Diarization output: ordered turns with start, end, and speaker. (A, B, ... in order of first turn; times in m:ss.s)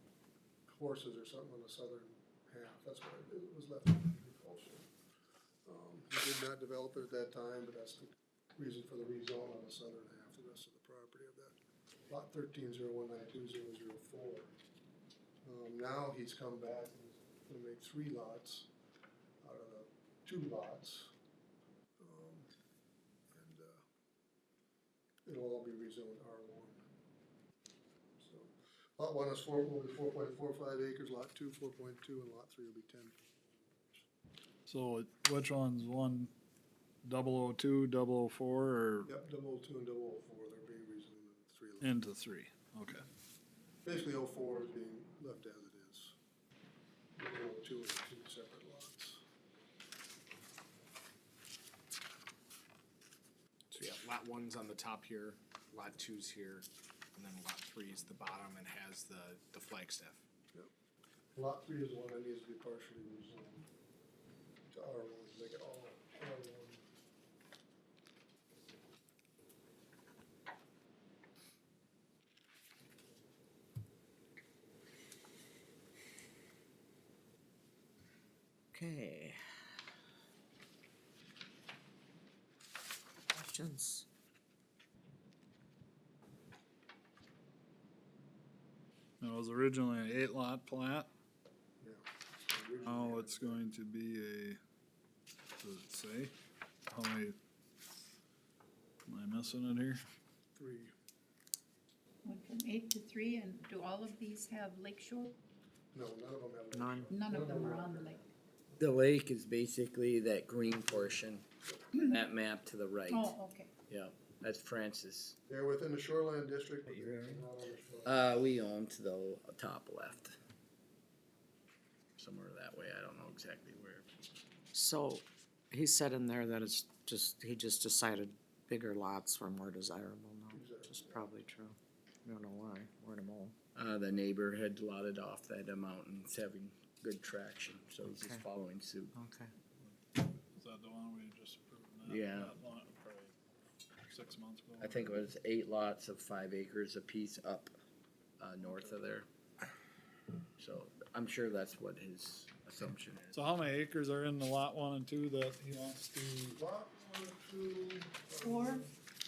0:00.7-0:04.9 A
0:05.6-0:11.6 A
0:12.1-0:14.5 A
0:15.4-0:18.7 A
0:19.4-0:21.1 A
0:22.0-0:22.5 A
0:23.3-0:23.8 A
0:25.3-0:26.8 A
0:28.2-0:33.2 A
0:34.7-0:36.3 B
0:37.0-0:39.1 B
0:39.0-0:42.0 A
0:41.8-0:43.0 B
0:43.8-0:46.1 A
0:47.2-0:49.2 A
0:53.7-1:00.2 C
1:01.4-1:03.7 A
1:04.7-1:06.8 A
1:18.7-1:19.4 D
1:23.3-1:24.1 D
1:29.2-1:31.1 B
1:31.8-1:33.6 A
1:32.8-1:34.6 B
1:35.6-1:36.3 B
1:36.9-1:37.3 B
1:39.1-1:40.0 B
1:40.6-1:40.9 A
1:42.2-1:45.4 E
1:45.9-1:48.8 A
1:46.7-1:47.1 D
1:47.1-1:48.2 E
1:48.8-1:53.4 F
1:50.8-1:51.8 A
1:53.1-1:53.7 E
1:53.9-1:55.4 F
1:55.5-1:58.2 A
1:56.9-1:57.4 D
1:58.0-2:00.4 F
2:02.2-2:04.1 F
2:04.7-2:13.5 D
2:10.5-2:11.2 A
2:13.7-2:19.1 F
2:18.0-2:18.4 D
2:19.1-2:19.5 D
2:19.8-2:23.3 B
2:22.0-2:22.6 F
2:24.1-2:25.1 B
2:24.8-2:27.7 F
2:28.4-2:29.3 F
2:28.6-2:29.0 B
2:30.6-2:33.3 F
2:33.3-2:36.6 B
2:36.5-2:38.9 A
2:38.4-2:38.8 E